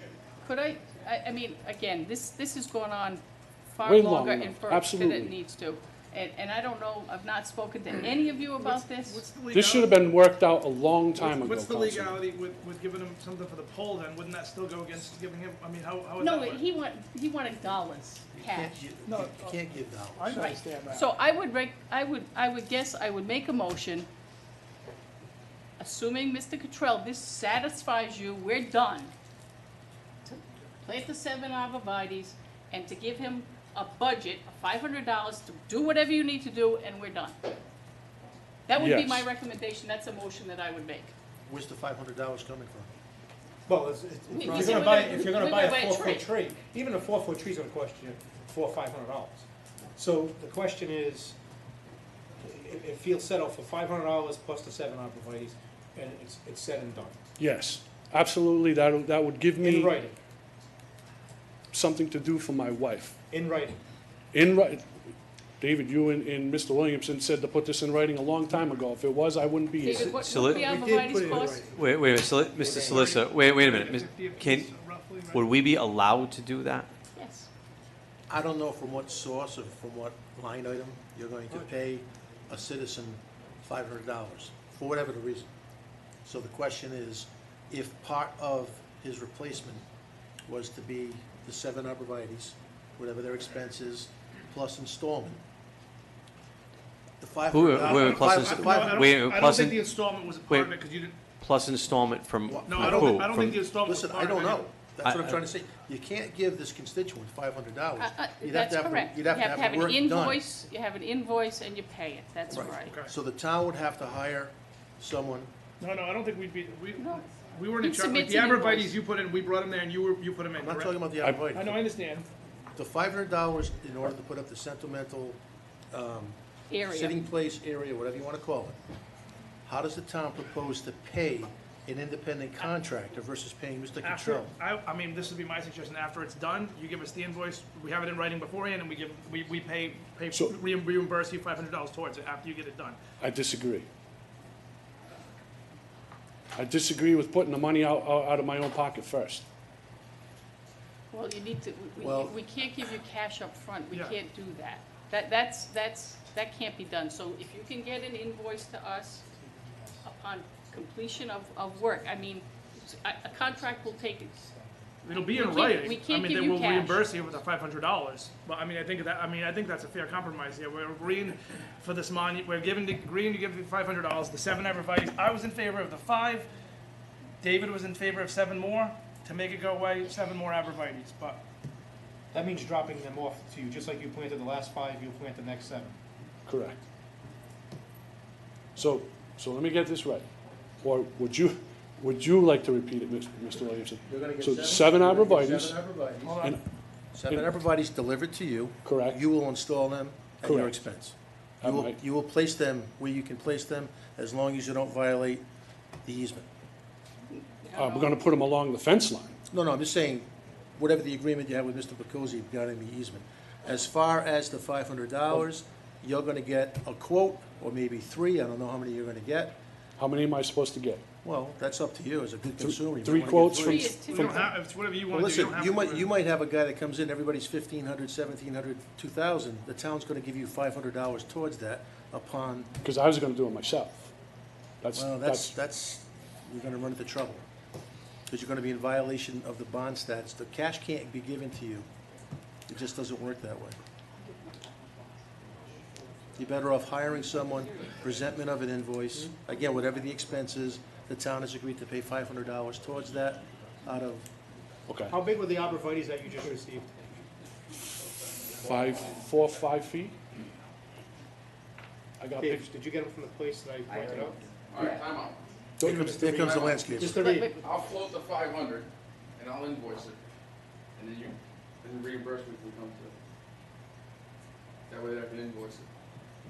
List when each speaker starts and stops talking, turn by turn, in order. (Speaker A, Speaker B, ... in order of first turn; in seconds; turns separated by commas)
Speaker A: 0.4-9.2, Speaker B: 3.8-5.4, Speaker C: 8.6-10.1, Speaker B: 9.5-12.2, Speaker C: 11.2-16.6, Speaker A: 16.2-18.8, Speaker D: 18.3-20.4, Speaker C: 19.1-19.6, Speaker C: 20.2-21.1, Speaker A: 20.3-24.1, Speaker A: 25.8-29.1, Speaker A: 30.3-37.6, Speaker A: 38.7-41.1, Speaker B: 38.8-39.3, Speaker D: 41.5-42.9, Speaker E: 43.7-49.5, Speaker A: 44.3-46.3, Speaker E: 50.0-51.4, Speaker E: 52.4-57.2, Speaker B: 57.4-60.0, Speaker E: 59.6-60.1, Speaker B: 61.7-63.2, Speaker E: 63.3-63.8, Speaker B: 64.3-64.9, Speaker B: 65.6-70.1, Speaker A: 69.8-71.7, Speaker F: 69.9-70.7, Speaker E: 70.4-73.1, Speaker F: 71.2-74.7, Speaker C: 72.8-75.6, Speaker F: 75.3-76.9, Speaker A: 77.2-77.5, Speaker D: 78.3-85.5, Speaker D: 86.2-89.8, Speaker D: 90.5-95.4, Speaker D: 97.2-99.1, Speaker F: 97.5-99.9, Speaker C: 97.8-101.2, Speaker F: 101.4-103.6, Speaker D: 102.5-110.4, Speaker C: 102.7-104.7, Speaker F: 105.0-105.4, Speaker A: 108.0-113.0, Speaker D: 112.5-115.5, Speaker C: 112.8-113.1, Speaker C: 115.8-122.3, Speaker A: 117.0-119.0, Speaker D: 120.5-121.8, Speaker D: 122.8-125.4, Speaker D: 125.9-128.8, Speaker A: 126.7-127.2, Speaker D: 129.7-134.5, Speaker C: 134.0-143.0, Speaker B: 143.2-143.9, Speaker B: 146.6-149.4, Speaker A: 151.1-159.2, Speaker D: 152.0-152.4, Speaker E: 159.3-160.1, Speaker A: 160.1-164.4, Speaker E: 161.8-165.2, Speaker C: 165.0-176.5, Speaker A: 165.1-167.0, Speaker E: 167.1-167.4, Speaker C: 177.4-181.4, Speaker E: 182.3-186.0, Speaker B: 186.5-186.8, Speaker B: 188.8-190.3, Speaker B: 190.8-195.8, Speaker D: 194.1-196.4, Speaker C: 196.2-196.6, Speaker D: 197.1-205.4, Speaker B: 198.8-199.2, Speaker B: 200.4-200.7, Speaker B: 201.6-202.0, Speaker D: 206.1-206.5, Speaker A: 207.6-208.1, Speaker B: 207.8-209.4, Speaker D: 209.5-219.6, Speaker B: 220.0-221.0, Speaker D: 221.2-224.0, Speaker B: 222.6-224.4, Speaker A: 223.6-224.5, Speaker C: 224.1-226.1, Speaker D: 225.1-232.7, Speaker B: 232.8-234.1, Speaker B: 234.8-235.5, Speaker D: 234.9-237.4, Speaker D: 238.3-241.9, Speaker D: 242.7-243.8, Speaker D: 246.4-254.3, Speaker B: 254.9-255.2, Speaker E: 255.1-257.0, Speaker B: 258.6-260.2, Speaker B: 262.2-262.6, Speaker E: 262.4-265.0, Speaker G: 264.7-265.4, Speaker B: 265.8-266.2, Speaker D: 265.8-267.2, Speaker E: 265.9-267.6, Speaker G: 266.1-267.0, Speaker A: 267.2-267.8, Speaker G: 267.6-270.2, Speaker G: 271.0-273.2, Speaker G: 274.9-275.9